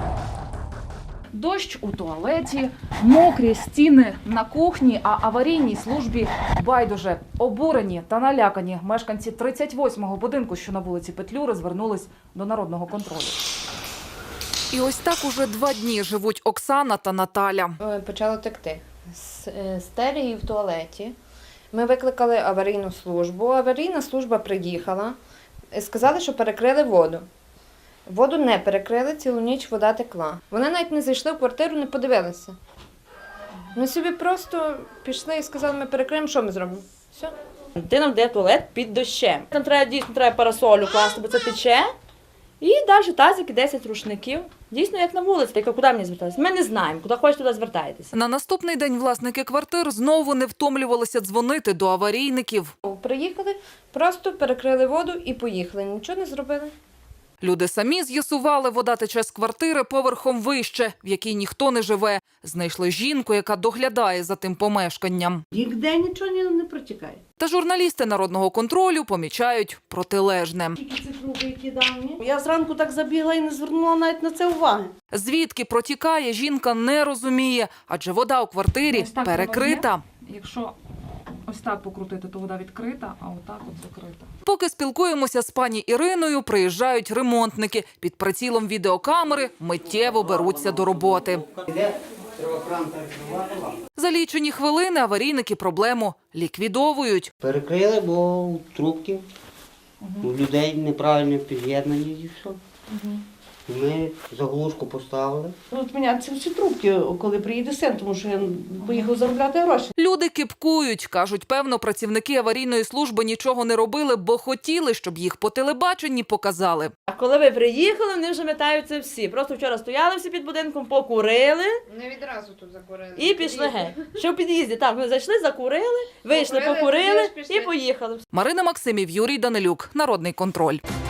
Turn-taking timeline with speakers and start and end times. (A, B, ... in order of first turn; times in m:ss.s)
0:01.3-0:13.4 A
0:14.7-0:17.8 A
0:17.8-0:21.1 B
0:21.7-0:25.2 B
0:25.7-0:27.2 B
0:28.1-0:32.6 B
0:33.7-0:37.3 B
0:37.8-0:41.9 C
0:42.6-0:48.1 C
0:48.1-0:52.7 A
0:52.8-0:56.7 B
0:57.4-1:05.4 A
1:05.5-1:07.2 D
1:07.4-1:10.8 A
1:10.8-1:14.9 D
1:15.1-1:20.0 A
1:18.9-1:20.7 E
1:21.5-1:24.3 E
1:24.4-1:31.4 A
1:30.5-1:33.8 F
1:34.0-1:37.3 A
1:37.4-1:39.2 F
1:40.2-1:42.6 F
1:43.7-1:45.5 F
1:45.7-1:49.9 D
1:48.8-1:49.1 E
1:50.0-1:56.9 A
1:57.1-2:01.8 C
2:01.9-2:04.0 B
2:03.2-2:08.2 C
2:06.3-2:07.7 B
2:08.3-2:10.8 A